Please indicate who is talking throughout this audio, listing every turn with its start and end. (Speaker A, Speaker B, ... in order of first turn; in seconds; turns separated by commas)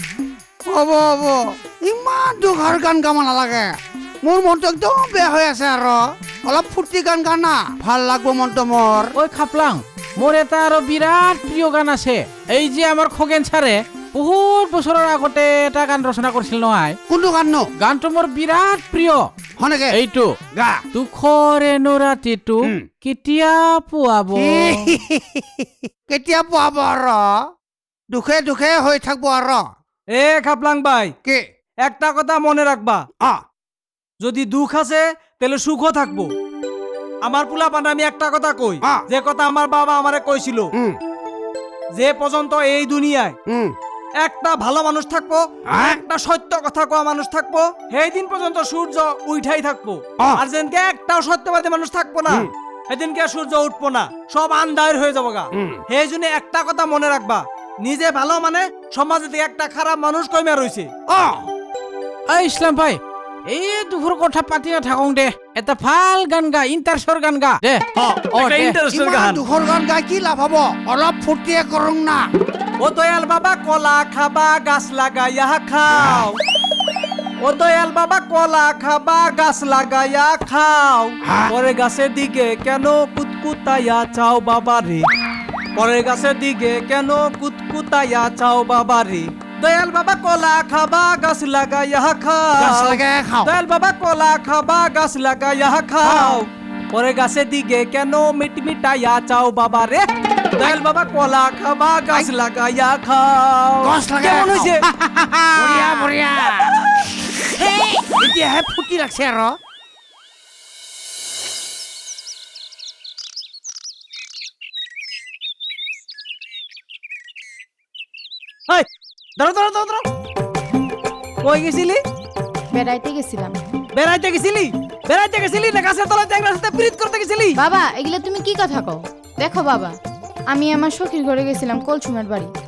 Speaker A: 0.7-9.1, Speaker B: 9.2-17.0, Speaker A: 17.1-17.7, Speaker B: 17.8-19.3, Speaker A: 19.6-20.0, Speaker B: 19.9-20.3, Speaker A: 20.5-20.8, Speaker B: 20.9-24.9, Speaker A: 24.3-27.4, Speaker A: 28.1-29.6, Speaker C: 30.1-31.1, Speaker C: 31.8-33.0, Speaker C: 34.2-36.3, Speaker C: 37.2-40.7, Speaker C: 41.9-43.4, Speaker A: 43.5-43.7, Speaker C: 44.2-60.9, Speaker A: 45.7-46.0, Speaker A: 61.1-61.5, Speaker B: 62.3-63.0, Speaker B: 63.5-68.8, Speaker C: 68.2-69.4, Speaker A: 68.9-72.2, Speaker C: 72.8-76.4, Speaker C: 77.4-85.0, Speaker A: 81.3-81.5, Speaker C: 85.7-104.8, Speaker A: 92.6-93.5, Speaker A: 96.0-96.4, Speaker A: 103.8-106.7, Speaker C: 105.5-106.1, Speaker A: 107.3-109.5, Speaker C: 118.7-120.0, Speaker C: 121.4-122.0, Speaker D: 122.7-123.6, Speaker C: 123.9-127.6, Speaker D: 127.5-132.5